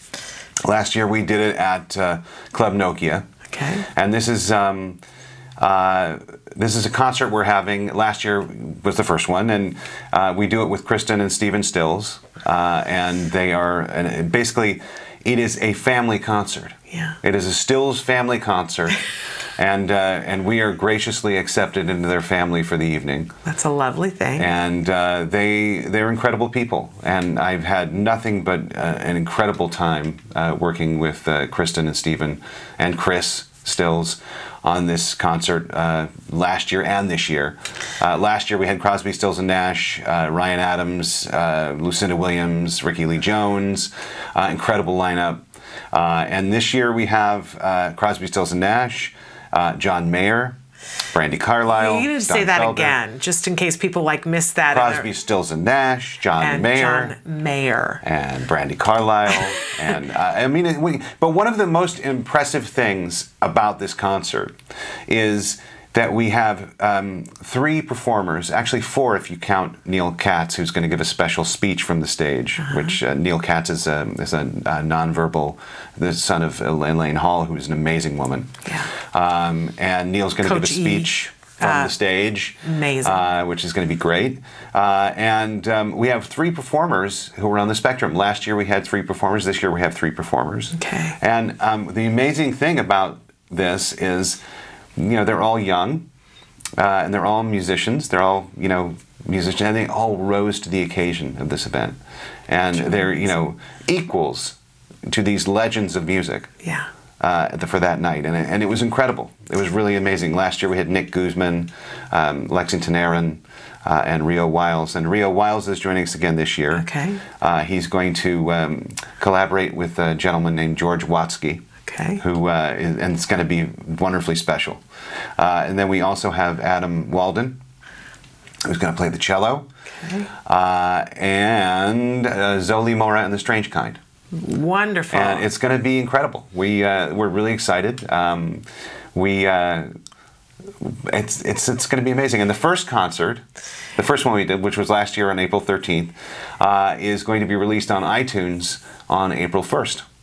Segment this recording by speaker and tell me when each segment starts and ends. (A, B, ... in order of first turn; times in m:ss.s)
0:00.7-0:03.2 A
0:03.5-0:03.8 B
0:03.9-0:05.0 A
0:05.6-0:19.0 A
0:16.9-0:17.2 B
0:19.6-0:23.3 A
0:23.4-0:24.5 B
0:24.4-0:50.6 A
0:51.1-0:53.0 A
0:51.7-0:55.1 B
0:54.7-0:57.1 A
0:56.4-0:58.0 B
0:58.0-1:04.5 A
1:05.1-1:18.6 A
1:12.6-1:13.0 B
1:18.6-1:18.9 B
1:19.1-1:34.4 A
1:20.4-1:21.9 B
1:22.6-1:23.2 B
1:30.7-1:31.2 B
1:35.0-1:36.1 A
1:36.8-1:42.0 A
1:42.5-1:46.5 A
1:47.2-1:56.8 A
1:56.7-1:57.2 B
1:57.4-2:01.6 A
2:01.8-2:02.2 B
2:02.2-2:04.8 A
2:05.4-2:07.6 A
2:08.6-2:09.6 A
2:10.0-2:10.3 B
2:10.4-2:14.0 A
2:14.3-2:15.5 B
2:15.1-2:19.9 A
2:20.8-2:23.4 A
2:24.0-2:30.0 A